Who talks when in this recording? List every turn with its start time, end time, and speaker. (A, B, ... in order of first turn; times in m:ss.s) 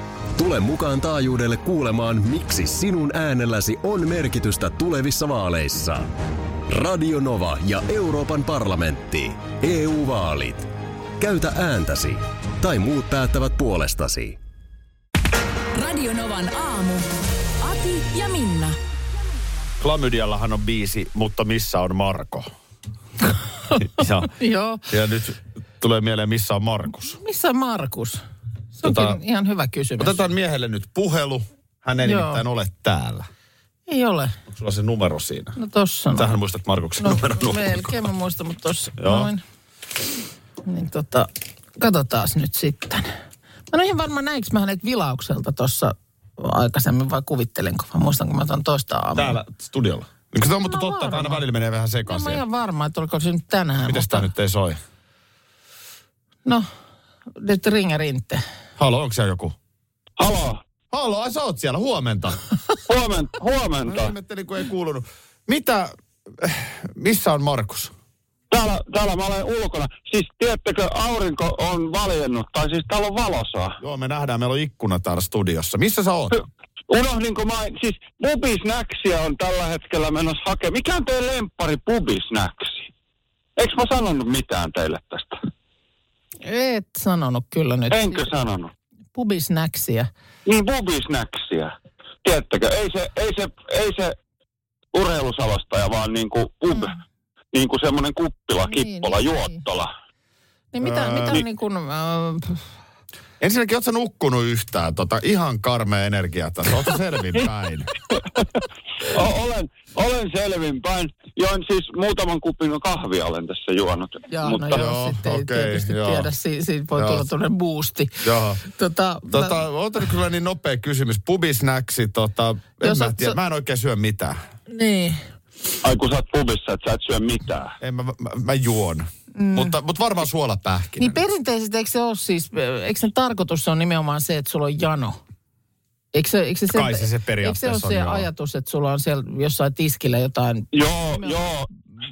0:00.4-0:06.1 A
0:06.7-0:14.4 A
0:15.7-0:17.1 B
0:17.6-0:18.8 B
0:19.8-0:22.5 C
0:23.8-0:24.8 D
0:23.8-0:24.3 C
0:24.9-0:27.2 C
0:27.1-0:28.2 D
0:28.8-0:30.2 D
0:28.8-0:29.2 C
0:30.0-0:33.3 C
0:32.0-0:32.4 D
0:33.9-0:34.4 D
0:34.5-0:35.6 C
0:35.6-0:36.4 D
0:36.1-0:38.0 C
0:37.0-0:39.4 D
0:39.0-0:39.3 C
0:40.6-0:43.1 D
0:43.7-0:49.4 D
0:49.1-0:52.4 C
0:50.6-0:51.4 D
0:52.0-0:54.3 D
0:53.8-0:54.8 C
0:57.4-0:58.4 D
0:58.8-0:59.6 C
1:00.2-1:00.6 E
1:00.9-1:02.4 C
1:02.9-1:04.1 E
1:03.8-1:07.9 C
1:08.5-1:13.8 E
1:13.8-1:16.4 C
1:16.3-1:22.9 E
1:23.6-1:25.4 E
1:26.4-1:28.3 D
1:27.9-1:28.7 E
1:29.1-1:30.1 D
1:30.4-1:31.7 E
1:32.2-1:34.1 E
1:34.9-1:36.9 E
1:37.5-1:39.9 E
1:38.7-1:39.6 D
1:40.7-1:42.6 D
1:40.8-1:41.4 C
1:43.4-1:47.9 C
1:49.0-1:54.8 E
1:54.3-1:59.6 D
1:54.7-1:56.3 C
1:56.9-1:57.3 C
1:58.2-1:58.6 C
1:59.3-2:04.4 C
2:02.8-2:03.4 D
2:04.7-2:05.2 D
2:05.8-2:07.8 E
2:07.8-2:11.2 C
2:09.4-2:09.8 D
2:11.0-2:15.2 D
2:16.1-2:21.4 D
2:16.7-2:18.3 C
2:20.7-2:21.7 E